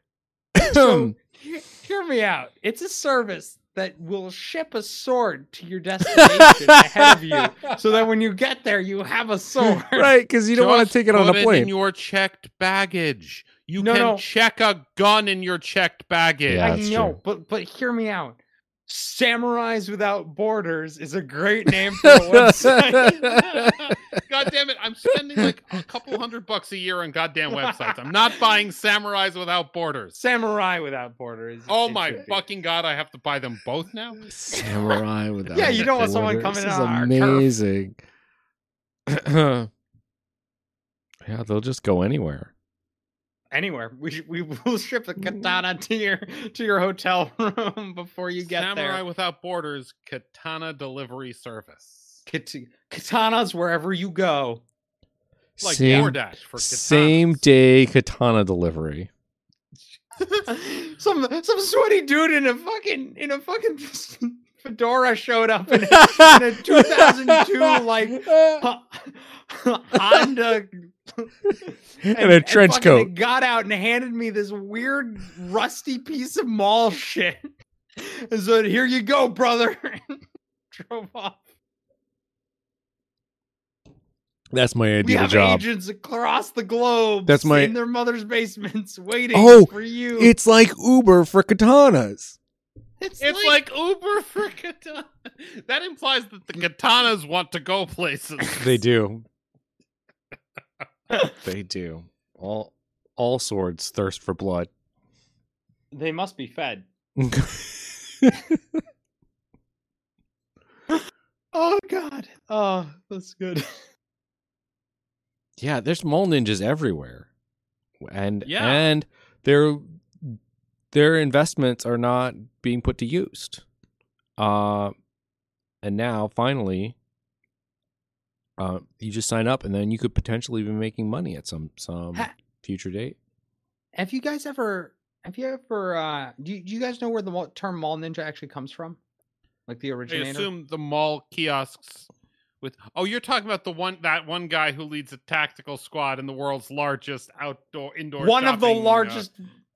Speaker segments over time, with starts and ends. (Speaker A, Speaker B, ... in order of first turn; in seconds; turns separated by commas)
Speaker A: 0.6-1.1, Speaker B: 0.6-10.1, Speaker A: 6.1-7.4, Speaker A: 9.6-11.7, Speaker C: 10.5-16.8, Speaker B: 13.8-14.2, Speaker A: 16.5-17.2, Speaker B: 16.6-23.7, Speaker A: 22.0-23.9, Speaker C: 23.5-30.2, Speaker B: 27.6-27.9, Speaker B: 30.2-32.4, Speaker C: 31.7-34.2, Speaker A: 34.3-38.0, Speaker B: 35.5-37.5, Speaker A: 39.1-39.7, Speaker A: 41.2-42.5, Speaker B: 43.5-49.0, Speaker C: 48.5-52.2, Speaker B: 52.3-54.6, Speaker A: 55.6-59.1, Speaker C: 55.6-57.4, Speaker B: 60.2-81.4, Speaker A: 65.7-68.6, Speaker A: 72.0-73.1, Speaker A: 84.5-85.6, Speaker B: 85.0-90.3, Speaker A: 87.3-87.7, Speaker A: 89.3-92.4, Speaker B: 93.0-93.6, Speaker C: 93.2-98.8, Speaker A: 98.6-99.2, Speaker A: 101.3-104.7, Speaker B: 105.9-106.8, Speaker A: 107.2-108.8, Speaker B: 111.5-113.7, Speaker A: 115.6-117.3, Speaker A: 118.0-120.4, Speaker C: 118.4-118.9, Speaker A: 120.9-123.6, Speaker A: 124.4-124.9, Speaker A: 125.8-126.9, Speaker A: 128.6-133.2, Speaker B: 133.9-139.0, Speaker B: 139.7-140.5, Speaker C: 140.1-142.1, Speaker C: 142.6-149.3, Speaker B: 148.2-149.4